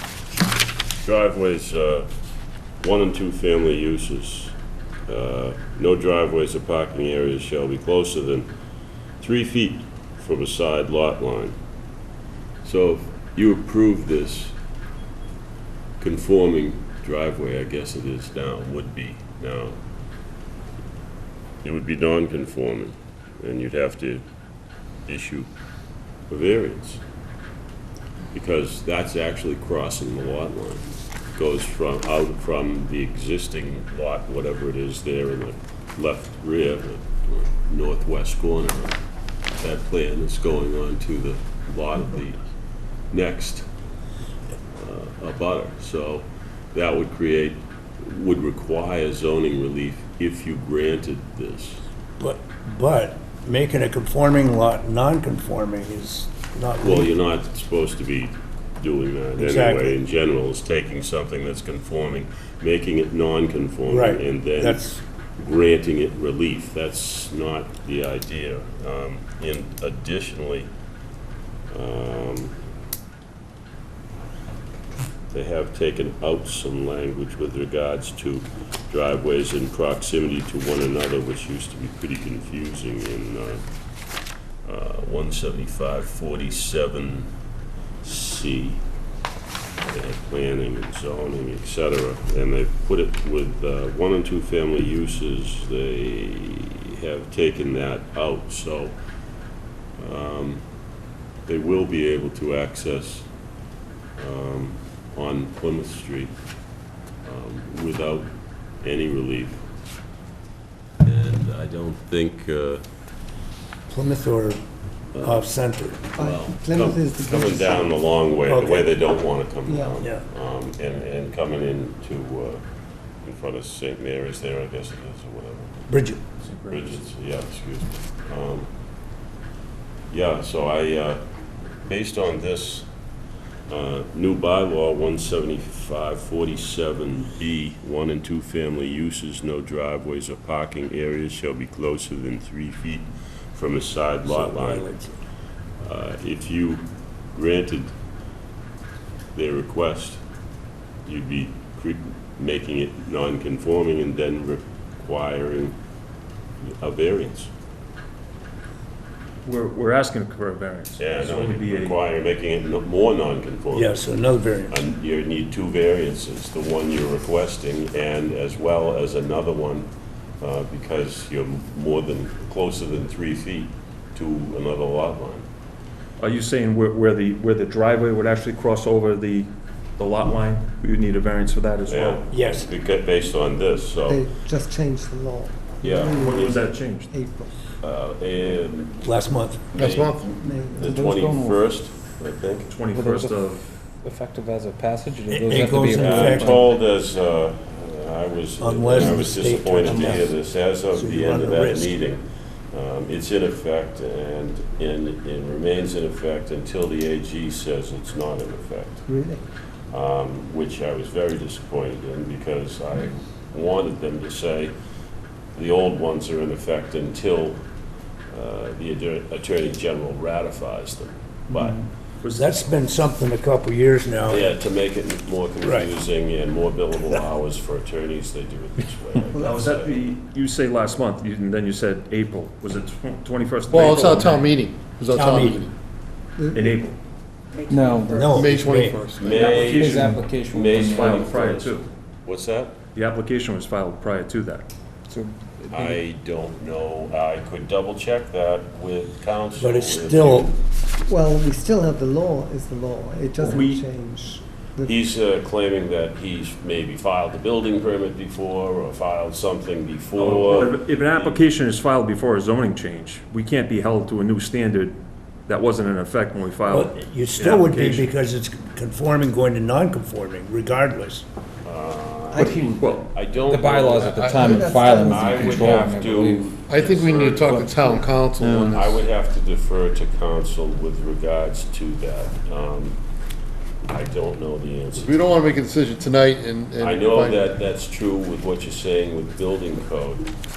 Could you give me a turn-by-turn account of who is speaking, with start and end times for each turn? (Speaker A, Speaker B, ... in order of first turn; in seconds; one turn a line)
Speaker A: 1.0-2.1
Speaker A: 2.8-4.5
Speaker A: 5.1-8.5
Speaker A: 9.2-11.6
Speaker A: 12.6-14.6
Speaker A: 16.0-19.8
Speaker A: 21.6-24.2
Speaker A: 25.1-25.5
Speaker A: 26.3-27.0
Speaker A: 28.3-39.0
Speaker A: 39.6-42.4
Speaker A: 43.1-43.7
Speaker A: 44.8-51.8
Speaker B: 52.2-57.1
Speaker A: 56.8-64.8
Speaker B: 59.4-60.0
Speaker B: 63.9-65.0
Speaker A: 65.4-70.7
Speaker A: 71.7-72.6
Speaker A: 75.3-83.7
Speaker A: 84.7-87.3
Speaker A: 88.0-88.8
Speaker A: 89.9-99.0
Speaker A: 100.0-100.6
Speaker A: 101.5-103.3
Speaker A: 104.2-106.3
Speaker A: 107.2-109.6
Speaker A: 111.0-112.8
Speaker B: 113.9-114.6
Speaker A: 115.2-115.5
Speaker B: 115.2-116.0
Speaker A: 116.2-122.6
Speaker C: 116.2-118.0
Speaker B: 118.5-118.9
Speaker C: 119.7-120.0
Speaker A: 123.2-125.8
Speaker B: 125.9-126.2
Speaker D: 126.4-126.9
Speaker A: 126.7-128.7
Speaker A: 130.1-131.2
Speaker A: 131.8-132.9
Speaker A: 133.7-144.9
Speaker B: 144.4-145.1
Speaker A: 145.8-147.9
Speaker A: 149.3-150.2
Speaker A: 151.1-155.8
Speaker A: 156.6-157.5
Speaker D: 159.4-162.0
Speaker A: 161.0-164.1
Speaker B: 163.7-164.8
Speaker A: 164.7-175.5
Speaker D: 176.2-182.2
Speaker A: 181.9-184.2
Speaker B: 182.3-182.7
Speaker C: 184.1-187.5
Speaker A: 185.8-186.6
Speaker D: 186.2-187.1
Speaker A: 187.8-189.2
Speaker B: 189.0-189.7
Speaker A: 189.7-192.7
Speaker E: 189.8-190.3
Speaker C: 190.4-190.9
Speaker F: 190.7-191.6
Speaker D: 192.7-193.7
Speaker F: 192.9-196.6
Speaker B: 195.3-196.6
Speaker A: 195.9-209.1
Speaker B: 198.6-200.3
Speaker F: 199.9-200.2
Speaker B: 200.9-202.0
Speaker C: 209.1-209.4
Speaker A: 209.9-214.7
Speaker A: 215.6-217.6
Speaker A: 218.3-221.8
Speaker D: 221.5-222.6
Speaker B: 222.3-224.5
Speaker A: 224.3-230.1
Speaker B: 225.6-225.9
Speaker D: 229.3-234.6
Speaker C: 229.3-229.7
Speaker E: 233.7-235.7
Speaker B: 235.1-235.7
Speaker C: 236.4-236.8
Speaker D: 236.5-237.0
Speaker C: 237.5-238.5
Speaker F: 237.7-238.3
Speaker B: 238.1-239.0
Speaker E: 238.3-239.8
Speaker A: 239.2-242.8
Speaker D: 239.3-240.1
Speaker F: 239.4-241.2
Speaker D: 240.8-241.9
Speaker D: 243.0-244.7
Speaker F: 245.1-246.0
Speaker A: 245.7-250.6
Speaker B: 249.6-250.5
Speaker C: 251.1-255.0
Speaker D: 253.4-253.8
Speaker A: 254.8-261.4
Speaker D: 260.2-268.1
Speaker B: 266.6-271.2
Speaker A: 271.6-277.7
Speaker C: 272.3-273.0
Speaker D: 272.4-273.1
Speaker F: 273.3-276.6
Speaker E: 274.1-275.1
Speaker C: 274.4-275.9
Speaker D: 275.4-275.7
Speaker E: 276.7-279.0
Speaker F: 277.4-277.9
Speaker D: 278.4-278.7
Speaker A: 278.6-283.0
Speaker A: 283.9-285.6
Speaker E: 284.9-287.5
Speaker A: 286.8-290.3